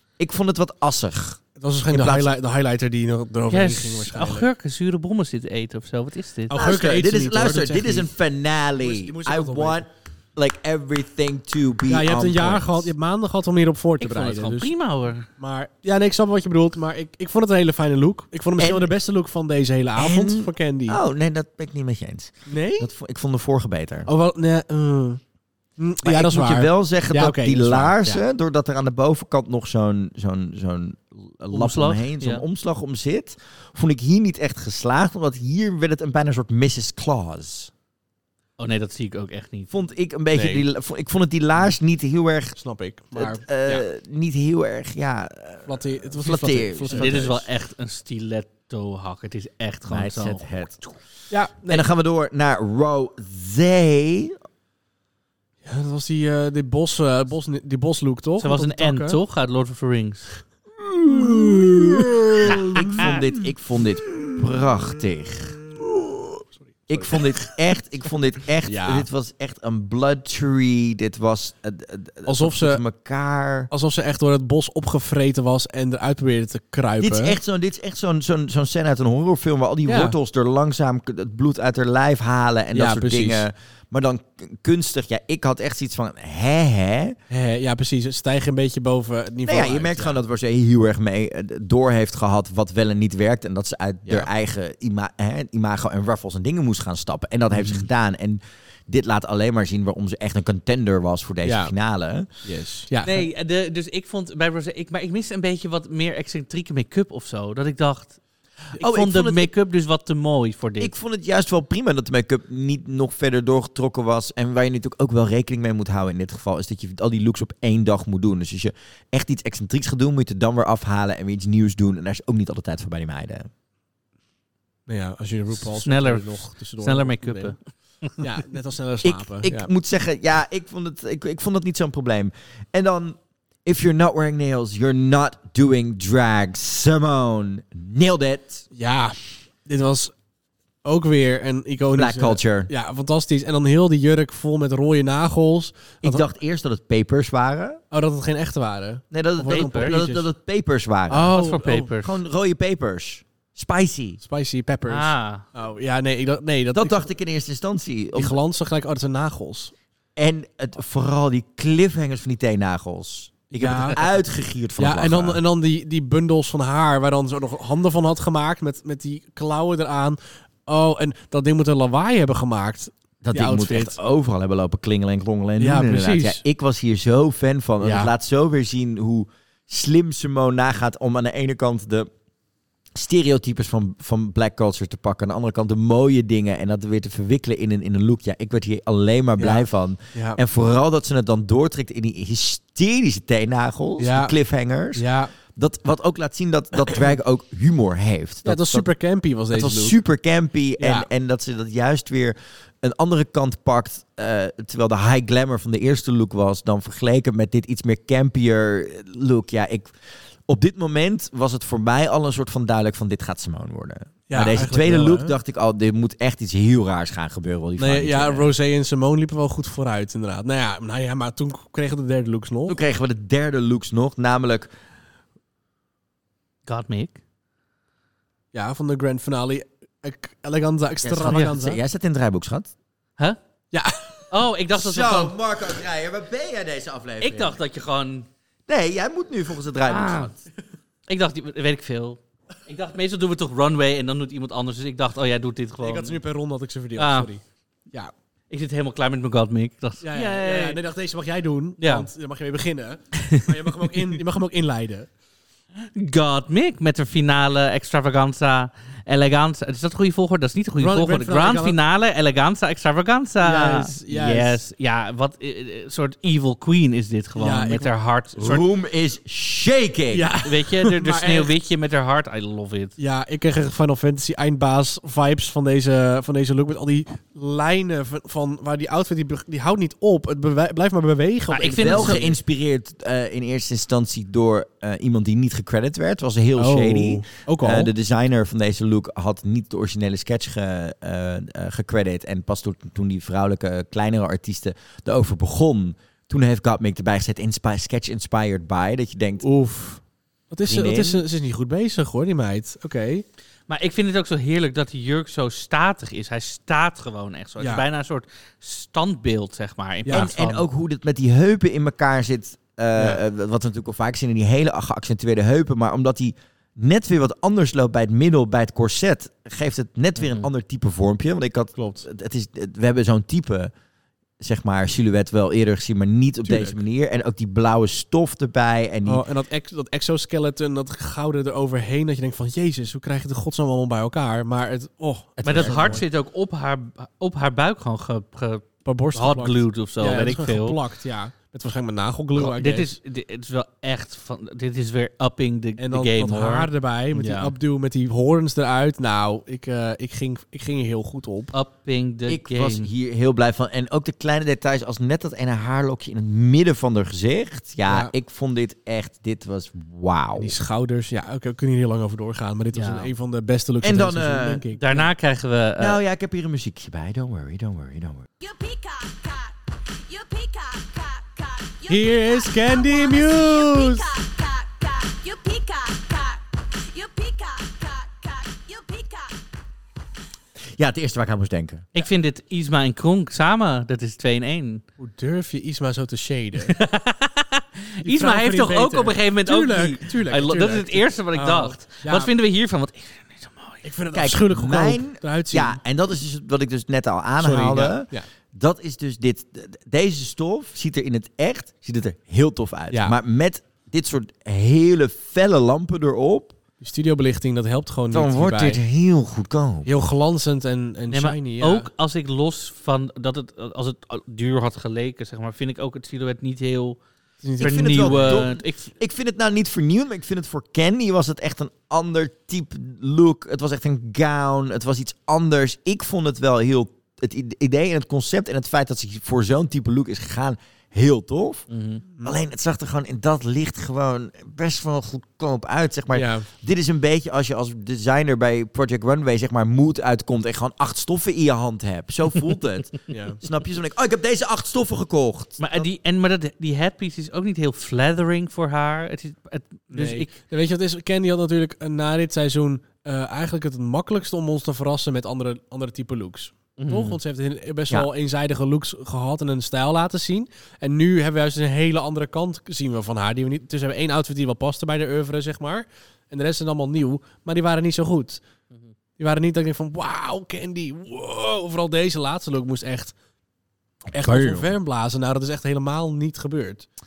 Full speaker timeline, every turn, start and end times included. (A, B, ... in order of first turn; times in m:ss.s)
0:00.2-0:01.4 A
0:01.6-0:04.5 B
0:01.9-0:02.3 A
0:03.5-0:06.6 C
0:06.5-0:08.1 B
0:06.5-0:12.9 A
0:08.8-0:09.8 B
0:11.9-0:14.7 B
0:14.0-0:15.3 C
0:15.4-0:21.0 B
0:18.6-0:18.9 A
0:20.0-0:24.1 A
0:22.5-0:22.9 B
0:24.0-0:25.2 B
0:25.8-0:28.2 B
0:26.0-0:37.7 A
0:31.5-0:32.4 C
0:38.6-0:39.7 C
0:39.7-0:42.6 A
0:40.3-0:40.6 B
0:42.6-0:43.4 B
0:43.1-0:47.4 A
0:45.6-0:47.3 B
0:46.9-0:50.9 C
0:49.9-0:50.8 A
0:51.3-0:51.9 B
0:51.7-0:54.4 A
0:55.6-0:59.2 B
0:58.4-1:00.4 C
1:00.8-1:05.6 A
1:01.1-1:03.2 B
1:02.5-1:02.9 C
1:05.8-1:07.2 B
1:06.9-1:13.7 A
1:08.6-1:09.1 B
1:12.2-1:12.8 B
1:13.7-1:17.4 B
1:17.0-1:27.2 A
1:19.8-1:20.2 B
1:22.7-1:23.4 B
1:27.3-1:30.2 B
1:29.4-1:42.3 A
1:37.5-1:37.8 B
1:41.4-1:41.7 B
1:42.4-1:43.2 B
1:43.0-1:48.2 C
1:48.8-1:50.9 C
1:48.8-1:49.5 A
1:50.8-2:03.5 A
2:04.9-2:07.6 B
2:05.6-2:08.2 C
2:08.2-2:09.7 B
2:09.0-2:18.6 A
2:18.7-2:20.1 B
2:20.8-2:26.2 B
2:21.9-2:22.7 A
2:26.0-2:27.8 A
2:27.9-2:30.3 B
2:29.1-2:31.3 A
2:29.5-2:30.0 C
2:31.1-2:32.0 B
2:31.3-2:32.1 C
2:32.0-2:34.2 A
2:34.2-2:37.1 B
2:34.9-2:35.4 C
2:36.7-2:38.4 A
2:38.1-2:39.7 B
2:40.2-2:45.4 A
2:43.5-2:44.0 B
2:44.8-2:54.0 B
2:53.2-3:02.1 A
2:55.6-2:56.4 B
2:57.8-2:58.1 B
3:02.9-3:18.9 A
3:09.4-3:10.4 B
3:14.0-3:14.3 B
3:14.9-3:15.3 B
3:18.4-3:20.0 B
3:19.5-3:29.9 A
3:20.8-3:21.1 B
3:30.5-3:38.5 A
3:34.3-3:35.3 B
3:37.8-3:42.8 B
3:42.7-3:44.7 A
3:46.6-3:47.2 C
3:48.5-3:51.8 B
3:51.0-3:52.7 A
3:53.7-3:54.2 B
3:54.3-3:55.4 C
3:54.7-3:57.6 A
3:57.2-3:58.3 C
3:58.7-4:00.4 A
3:59.9-4:00.3 C
4:01.1-4:06.2 C
4:05.8-4:08.1 B
4:07.0-4:07.3 C
4:08.5-4:10.8 C
4:10.0-4:15.1 B
4:11.8-4:12.1 C
4:15.8-4:28.6 C
4:20.8-4:21.8 B
4:23.4-4:24.6 B
4:27.4-4:27.9 B
4:28.4-4:30.3 A
4:30.1-4:31.5 B
4:30.4-4:32.9 C
4:33.0-4:42.3 B
4:41.5-4:42.3 C
4:41.8-4:59.4 A
4:46.5-4:47.9 B
4:59.4-5:03.2 B
5:00.7-5:01.2 A
5:03.7-5:10.6 C
5:07.6-5:07.8 B
5:10.0-5:10.3 B
5:10.1-5:23.7 A
5:13.0-5:13.2 B
5:20.2-5:20.5 C
5:21.7-5:22.0 B
5:24.4-5:29.2 A
5:26.4-5:26.8 B
5:29.0-5:36.0 B
5:35.4-5:36.0 A
5:35.4-5:40.8 C
5:38.8-5:43.0 B
5:42.4-5:47.5 C
5:45.8-5:51.5 B
5:51.5-5:52.9 C
5:52.3-6:00.5 A
5:57.9-5:58.1 B
6:00.4-6:05.1 B
6:02.7-6:03.1 C
6:03.8-6:04.6 A
6:04.8-6:06.0 C
6:05.8-6:08.3 A
6:08.4-6:19.5 D
6:11.9-6:14.1 B
6:20.8-6:21.8 A
6:21.9-6:24.8 C
6:25.0-6:26.8 B
6:26.6-6:33.8 C
6:28.0-6:32.3 B
6:33.8-6:35.8 B
6:34.1-6:46.5 A
6:37.4-6:38.3 B
6:42.9-6:43.2 B
6:46.8-6:48.8 B
6:48.1-6:49.9 A
6:49.8-6:51.9 B
6:51.1-6:57.0 C
6:57.4-6:58.5 B
6:57.6-6:58.9 C
6:57.6-7:11.7 A
7:11.7-7:12.0 C
7:12.2-7:25.6 A
7:16.1-7:16.5 B
7:23.1-7:23.4 B
7:25.6-7:30.3 C
7:29.9-7:48.4 B
7:36.8-7:37.2 C
7:49.2-7:53.1 B
7:54.1-7:56.9 B
7:54.2-7:54.7 A